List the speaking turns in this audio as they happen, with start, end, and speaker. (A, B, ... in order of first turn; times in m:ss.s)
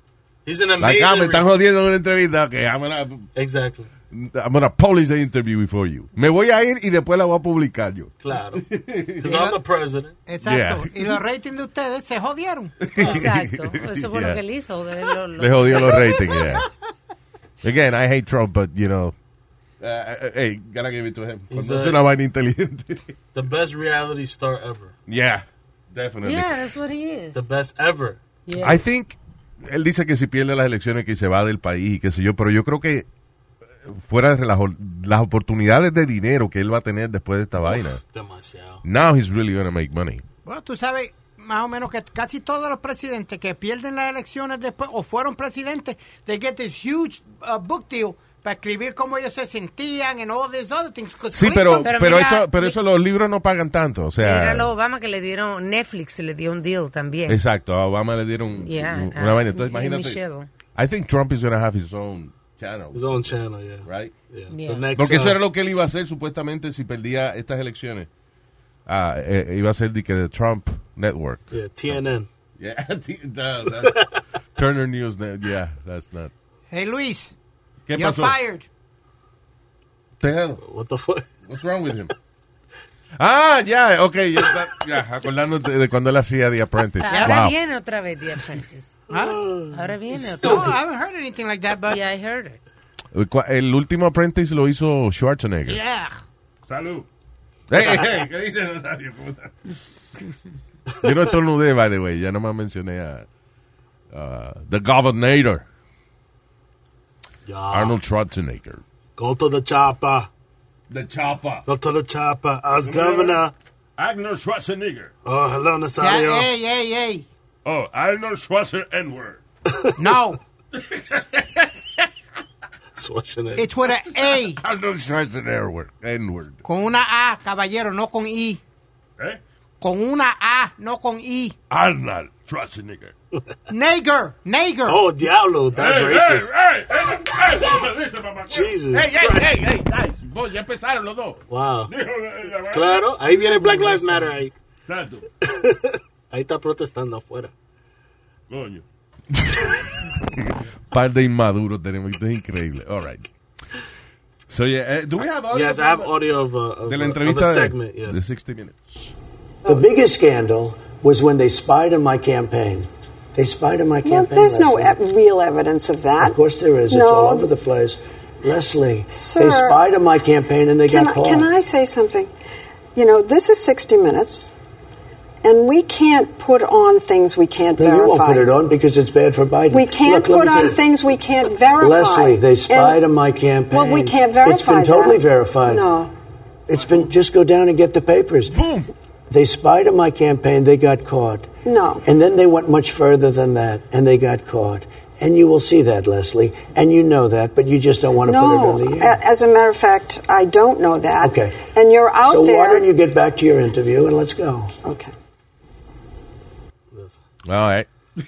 0:00.4-0:01.5 A
0:00.8-0:03.3 B
0:03.3-0:03.9 A
0:04.1-0:09.5 B
0:08.2-0:10.2 A
0:09.2-0:09.6 C
0:10.2-0:12.7 C
0:10.4-0:11.2 B
0:12.8-0:14.4 B
0:13.0-0:16.3 D
0:15.4-0:16.7 B
0:17.6-0:19.1 B
0:19.8-0:23.1 B
0:21.5-0:22.0 A
0:23.3-0:24.9 A
0:25.1-0:26.5 B
0:26.2-0:27.4 D
0:27.3-0:28.2 A
0:28.5-0:28.8 D
0:28.6-0:33.1 B
0:33.8-0:38.0 B
0:37.7-0:38.8 A
0:38.8-0:40.2 B
0:40.4-0:51.9 C
0:51.3-0:54.7 B
0:51.8-0:52.8 D
0:54.2-0:57.4 D
0:57.3-1:00.2 B
0:58.6-1:00.5 D
1:00.7-1:04.1 B
1:02.9-1:05.4 A
1:04.5-1:04.8 D
1:04.9-1:08.1 B
1:08.9-1:12.0 B
1:11.5-1:12.3 A
1:12.6-1:16.3 B
1:13.8-1:14.1 A
1:16.7-1:17.3 C
1:17.8-1:18.4 B
1:17.9-1:18.7 C
1:20.2-1:20.6 B
1:20.6-1:21.3 A
1:21.5-1:22.1 B
1:23.2-1:27.6 B
1:27.0-1:29.0 D
1:27.1-1:27.4 C
1:29.1-1:29.4 C
1:29.1-1:29.7 A
1:29.7-1:30.8 D
1:30.3-1:32.0 C
1:31.9-1:32.6 D
1:33.1-1:35.8 B
1:35.7-1:36.2 C
1:36.7-1:37.0 E
1:37.7-1:39.7 B
1:41.0-1:43.2 B
1:44.1-1:45.6 B
1:47.4-1:48.0 A
1:47.7-1:48.8 B
1:49.2-1:50.3 A
1:50.9-1:51.6 B
1:51.6-1:53.5 A
1:52.8-1:53.4 E
1:54.0-1:55.1 E
1:55.2-1:56.5 A
1:56.0-1:57.2 C
1:57.6-1:59.4 E
2:00.0-2:00.4 C
2:00.8-2:02.0 B
2:03.0-2:03.7 A
2:03.6-2:04.6 C
2:03.9-2:06.6 B
2:06.6-2:08.6 C
2:09.8-2:11.5 C
2:11.7-2:13.1 E
2:13.7-2:15.0 C
2:14.8-2:16.5 A
2:15.7-2:18.8 E
2:18.5-2:19.5 A
2:18.9-2:21.4 B
2:21.5-2:21.9 A
2:21.9-2:23.1 E
2:22.7-2:24.5 A
2:24.9-2:25.3 E
2:25.4-2:27.5 A
2:28.5-2:28.8 E
2:29.3-2:33.2 B
2:34.5-2:36.1 B
2:35.5-2:38.2 A
2:36.8-2:39.1 B
2:39.6-2:45.0 F
2:44.0-2:46.4 G
2:46.2-2:51.5 F
2:46.9-2:47.5 G
2:49.1-2:49.8 G
2:50.8-2:52.3 G
2:52.9-2:54.5 G
2:55.4-2:58.5 G
2:57.8-3:00.9 F
2:59.7-3:03.0 G
3:01.8-3:05.9 F
3:03.7-3:06.1 G
3:06.7-3:08.5 F
3:08.5-3:08.9 B
3:09.3-3:11.5 F
3:11.6-3:12.0 G
3:12.0-3:19.2 F
3:18.2-3:22.9 G
3:21.2-3:21.7 F
3:22.2-3:24.7 F
3:24.8-3:25.1 G
3:26.9-3:27.2 A
3:27.4-3:27.9 B